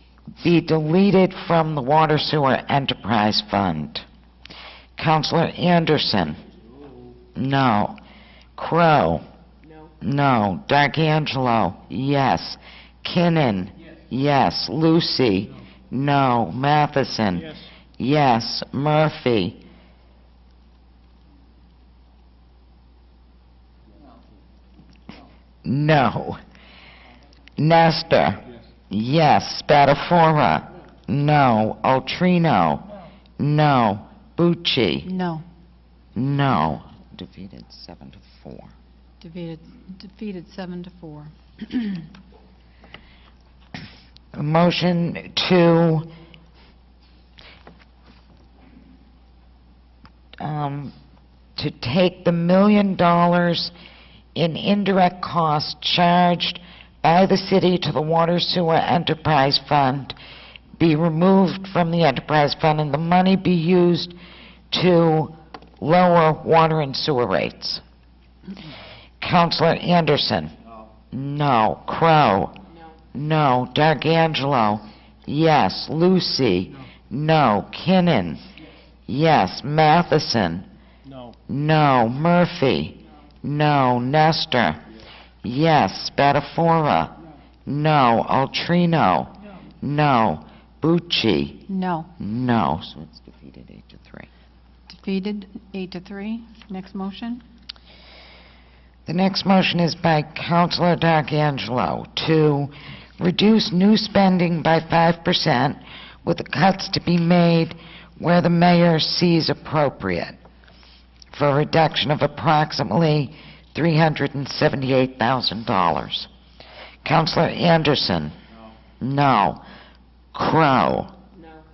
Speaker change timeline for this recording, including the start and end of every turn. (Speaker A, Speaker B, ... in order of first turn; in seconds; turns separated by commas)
Speaker A: 0.4-4.0, Speaker A: 5.0-6.4, Speaker A: 7.3-8.0, Speaker A: 8.6-9.2, Speaker A: 10.0-19.6, Speaker A: 25.6-26.4, Speaker A: 27.6-32.9, Speaker A: 33.4-35.1, Speaker B: 35.0-35.4, Speaker A: 36.1-38.7, Speaker B: 39.2-42.1, Speaker A: 44.3-46.1, Speaker A: 50.4-50.9, Speaker A: 51.6-53.7, Speaker A: 54.3-60.1, Speaker A: 60.8-64.2, Speaker A: 64.7-67.8, Speaker A: 69.2-70.5, Speaker A: 71.1-72.5, Speaker A: 73.1-78.4, Speaker A: 79.1-80.7, Speaker A: 81.5-84.8, Speaker A: 85.4-87.1, Speaker A: 87.7-91.6, Speaker B: 91.7-92.1, Speaker A: 92.2-94.3, Speaker B: 94.9-97.4, Speaker A: 99.0-110.4, Speaker A: 111.3-116.3, Speaker A: 117.0-118.3, Speaker A: 119.0-119.6, Speaker A: 120.3-121.1